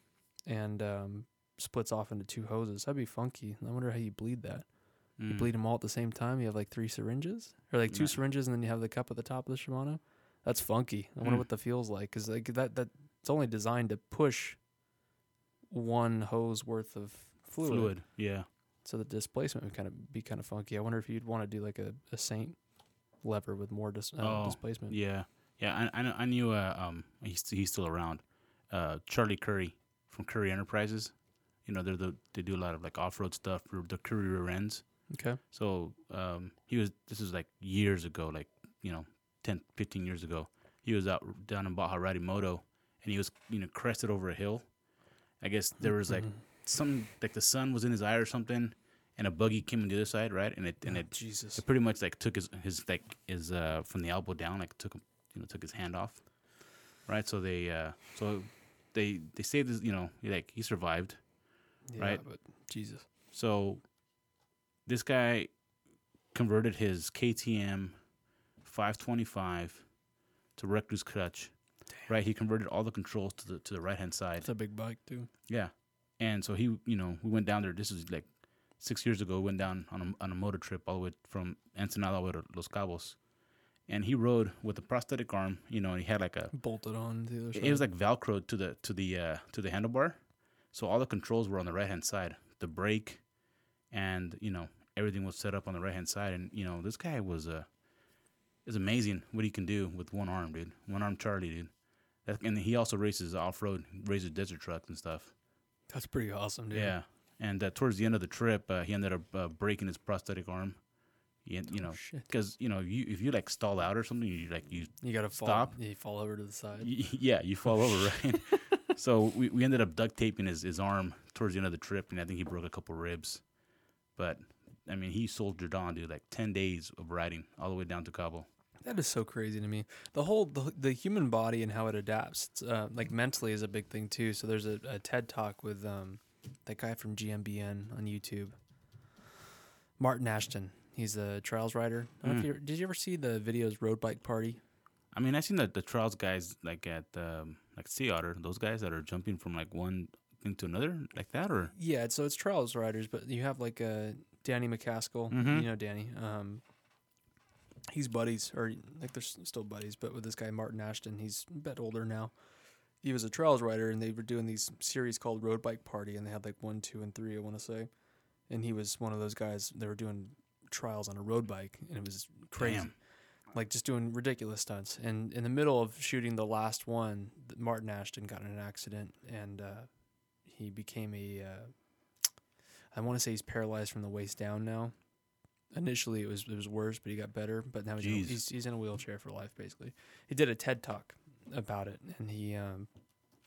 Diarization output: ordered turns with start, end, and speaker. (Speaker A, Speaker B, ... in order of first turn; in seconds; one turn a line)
Speaker A: 0.5-4.7
Speaker B: 5.2-5.5
Speaker A: 5.2-14.6
Speaker B: 7.9-8.2
Speaker A: 15.7-18.0
Speaker B: 17.6-18.4
Speaker A: 18.8-22.6
Speaker A: 23.2-24.9
Speaker B: 24.2-44.7
Speaker A: 35.1-35.4
Speaker B: 45.4-56.4
Speaker A: 45.9-46.3
Speaker A: 50.8-51.6
Speaker B: 57.0-61.2
Speaker A: 61.9-63.0
Speaker B: 63.3-63.8
Speaker B: 64.8-65.5
Speaker B: 66.3-68.0
Speaker B: 68.6-69.9
Speaker B: 70.5-71.5
Speaker B: 72.0-74.5
Speaker A: 74.4-75.3
Speaker B: 75.5-83.2
Speaker B: 83.9-86.5
Speaker A: 86.5-87.8
Speaker B: 87.5-90.2
Speaker B: 90.7-93.2
Speaker B: 93.9-97.7
Speaker B: 98.6-101.7
Speaker B: 102.2-105.3
Speaker A: 105.9-107.0
Speaker B: 106.7-110.8
Speaker B: 111.4-115.7
Speaker A: 111.8-112.3
Speaker A: 115.0-116.9
Speaker B: 116.8-123.4
Speaker B: 124.2-128.5
Speaker A: 128.8-138.5
Speaker A: 140.0-144.6
Speaker B: 145.1-151.7
Speaker A: 151.7-156.6
Speaker B: 155.3-155.7
Speaker A: 157.9-162.3
Speaker A: 163.0-167.9
Speaker A: 168.5-172.9
Speaker B: 172.6-172.9
Speaker A: 173.5-179.9
Speaker A: 180.4-181.7
Speaker A: 182.9-184.9
Speaker A: 185.7-192.9
Speaker B: 188.0-188.4